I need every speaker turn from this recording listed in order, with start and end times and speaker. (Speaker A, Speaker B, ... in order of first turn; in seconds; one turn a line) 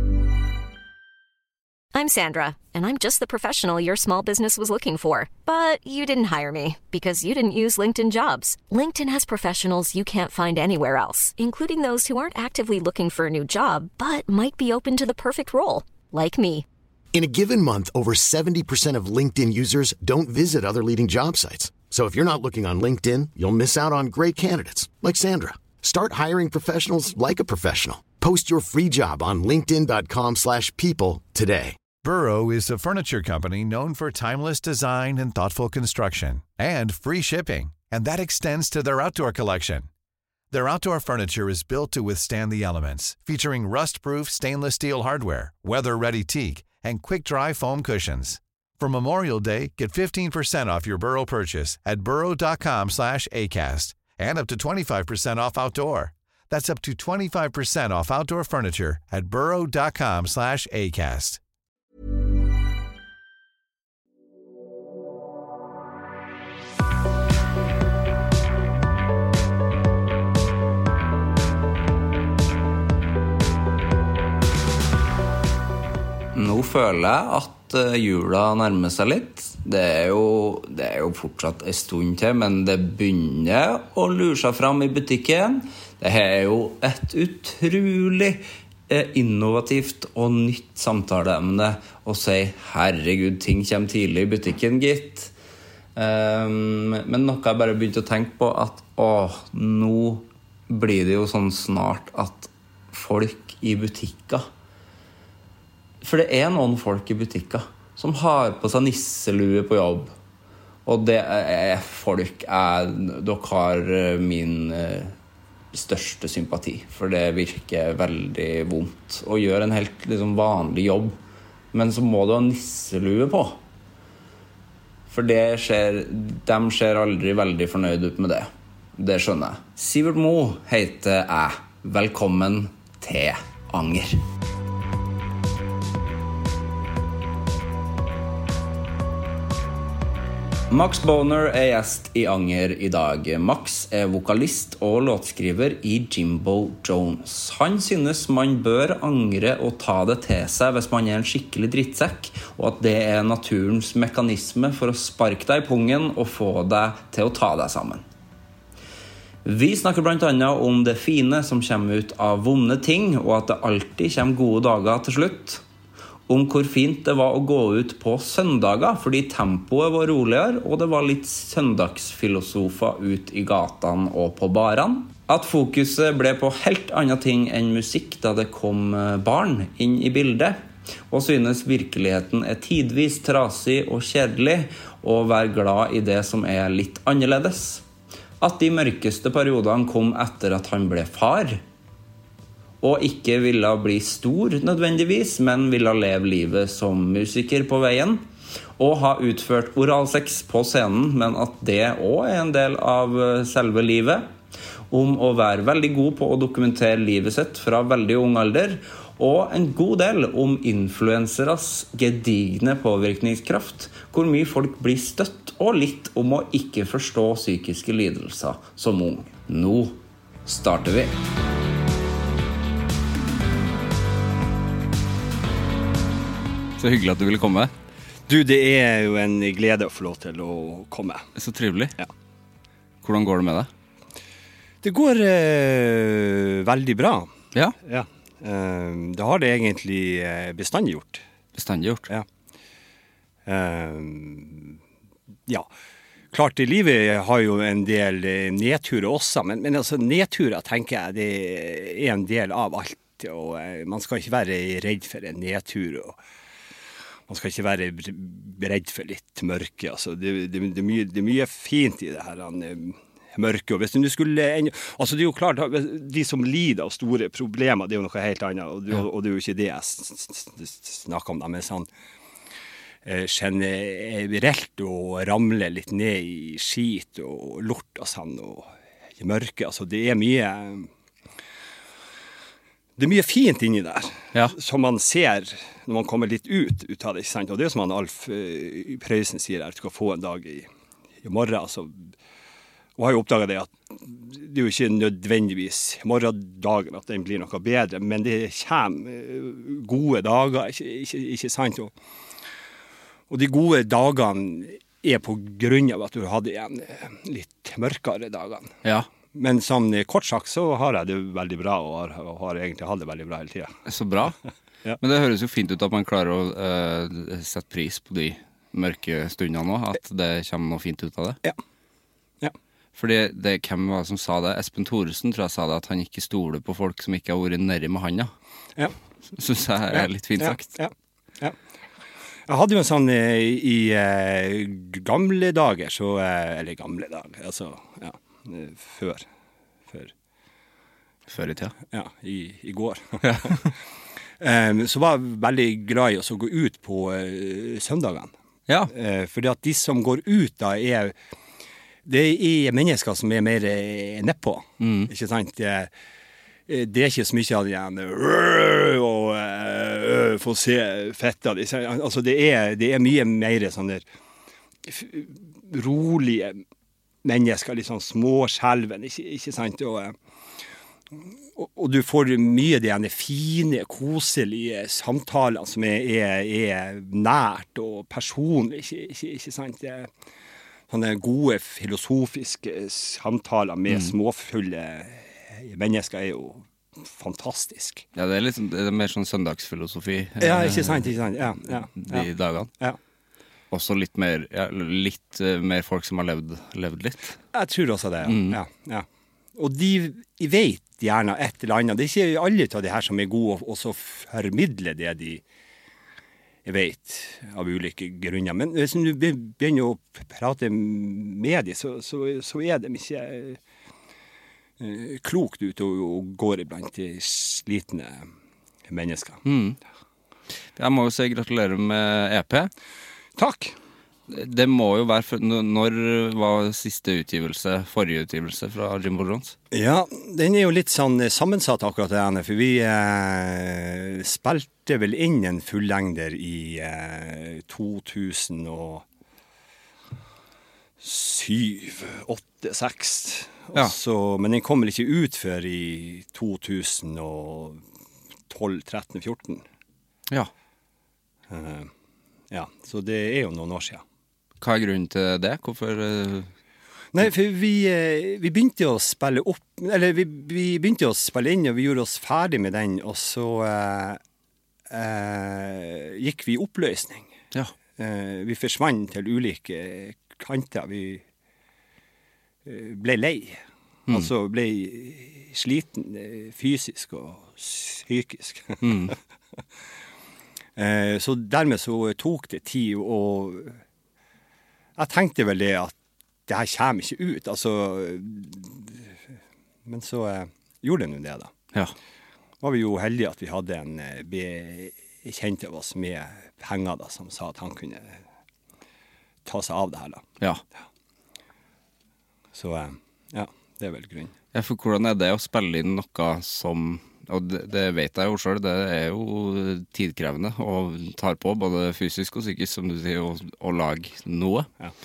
Speaker A: 1.9-16.6
Speaker B: 17.1-31.8
Speaker C: 32.0-39.9
Speaker C: 40.5-61.4
Speaker D: 76.3-95.3
Speaker D: 96.0-104.5
Speaker D: 106.0-110.1
Speaker D: 110.8-115.1
Speaker D: 115.7-121.2
Speaker D: 121.7-123.6
Speaker D: 125.1-134.2
Speaker D: 140.7-158.0
Speaker D: 159.4-165.6
Speaker D: 166.3-180.6
Speaker D: 181.1-187.8
Speaker D: 188.4-191.6
Speaker D: 192.8-198.2
Speaker D: 198.8-204.3
Speaker D: 204.9-221.2
Speaker D: 226.8-227.7
Speaker E: 228.3-231.3
Speaker D: 231.3-232.0
Speaker D: 233.0-233.7
Speaker E: 234.8-241.2
Speaker D: 241.6-242.1
Speaker E: 243.4-244.8
Speaker E: 246.3-256.2
Speaker E: 257.3-271.9
Speaker E: 273.0-280.9
Speaker E: 283.0-290.7
Speaker E: 291.2-292.1
Speaker E: 293.0-301.9
Speaker E: 303.3-308.7
Speaker D: 308.8-309.1
Speaker E: 309.3-313.7
Speaker D: 313.9-314.4
Speaker D: 315.0-321.4
Speaker D: 322.9-328.3
Speaker D: 329.4-330.7
Speaker E: 329.9-331.6
Speaker E: 332.5-339.2
Speaker D: 341.3-341.7
Speaker E: 341.9-343.7
Speaker D: 343.2-343.6
Speaker E: 344.4-348.3
Speaker E: 348.9-351.1
Speaker E: 352.0-355.9
Speaker D: 354.8-355.1
Speaker E: 356.7-364.0
Speaker E: 364.8-366.6
Speaker E: 367.2-370.1
Speaker E: 371.6-380.1
Speaker E: 380.9-388.0
Speaker D: 383.9-384.1
Speaker D: 388.1-391.1
Speaker E: 390.4-393.0
Speaker D: 391.7-392.7
Speaker D: 393.7-397.4
Speaker E: 397.5-405.4
Speaker D: 398.2-398.6
Speaker E: 406.6-413.6
Speaker E: 414.8-418.3
Speaker E: 418.9-419.4
Speaker D: 419.4-419.8
Speaker D: 420.8-422.7
Speaker E: 423.4-423.8
Speaker D: 424.3-429.6
Speaker E: 429.7-439.0
Speaker E: 441.0-447.8
Speaker E: 448.5-449.6
Speaker E: 451.5-451.9
Speaker E: 452.5-454.0
Speaker D: 454.6-456.5
Speaker E: 457.1-464.2
Speaker E: 464.9-467.3
Speaker E: 468.0-471.2
Speaker E: 472.6-479.1
Speaker D: 478.8-479.1
Speaker E: 480.8-483.8
Speaker E: 485.0-485.9
Speaker E: 486.5-489.2
Speaker E: 489.9-491.5
Speaker E: 492.6-498.2
Speaker E: 499.4-500.2
Speaker E: 502.5-504.3
Speaker D: 504.5-514.7